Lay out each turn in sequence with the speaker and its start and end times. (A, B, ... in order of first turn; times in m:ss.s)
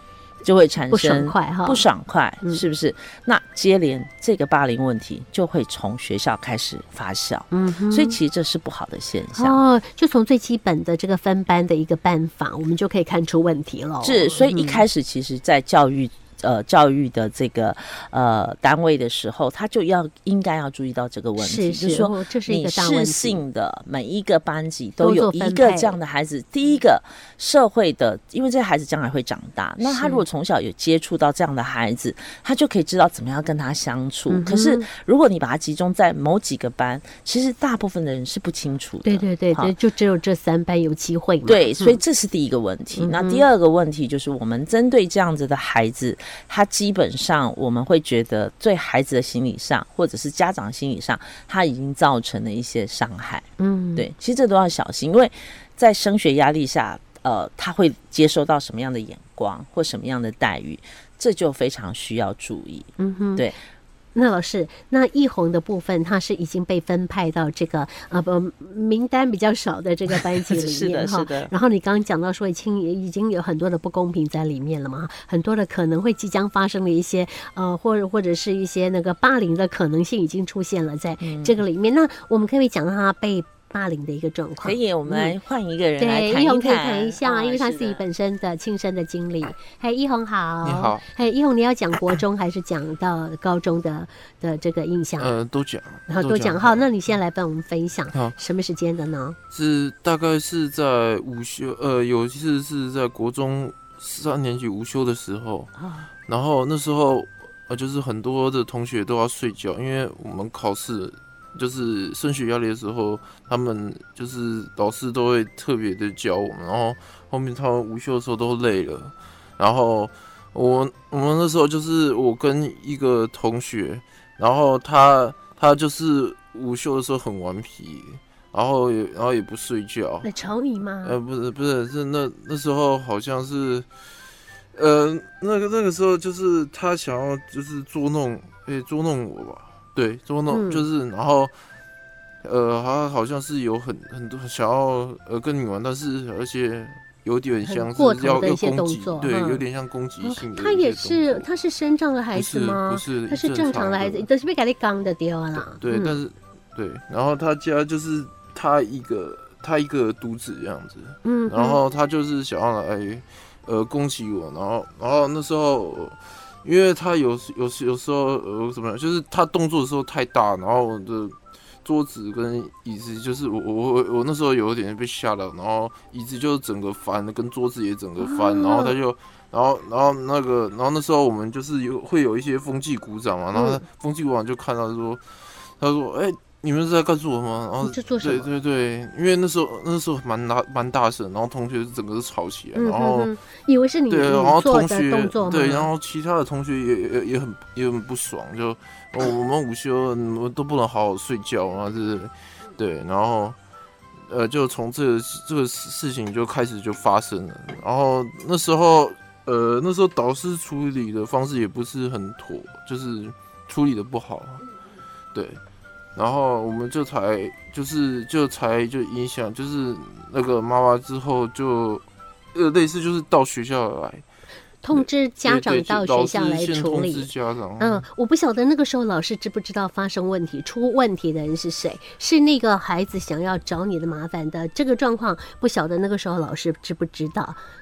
0:00.4-0:09.6 A
0:00.9-0:01.9 B
0:07.5-0:08.2 B
0:09.3-0:14.8 B
0:14.0-0:39.7 A
0:21.4-0:23.4 B
0:25.0-0:26.0 B
0:29.8-0:30.2 B
0:34.3-0:34.9 B
0:39.0-0:42.0 B
0:41.5-1:03.6 A
0:43.0-0:43.4 B
0:53.6-0:54.1 B
1:03.0-1:03.5 B
1:04.2-1:25.4 B
1:10.4-1:11.5 A
1:21.2-1:21.6 A
1:24.6-1:28.0 A
1:26.0-1:35.4 B
1:30.6-1:31.0 C
1:35.2-1:36.9 C
1:36.1-1:39.4 B
1:39.5-1:45.7 C
1:45.8-1:46.1 B
1:46.3-2:10.3 C
2:10.2-2:11.2 B
2:11.0-2:13.9 C
2:14.7-2:21.5 C
2:20.5-2:20.9 B
2:22.4-2:31.5 C
2:27.6-2:29.6 B
2:30.2-2:36.2 B
2:32.3-2:34.3 C
2:35.6-3:05.2 C
2:41.2-2:41.8 B
2:58.2-2:59.0 B
3:03.5-3:03.8 B
3:05.8-3:13.3 C
3:07.8-3:08.5 B
3:12.8-3:15.9 B
3:14.1-3:23.6 C
3:24.3-3:34.6 C
3:35.3-3:35.6 C
3:36.2-3:44.2 C
3:44.8-3:57.6 B
3:44.9-3:48.1 C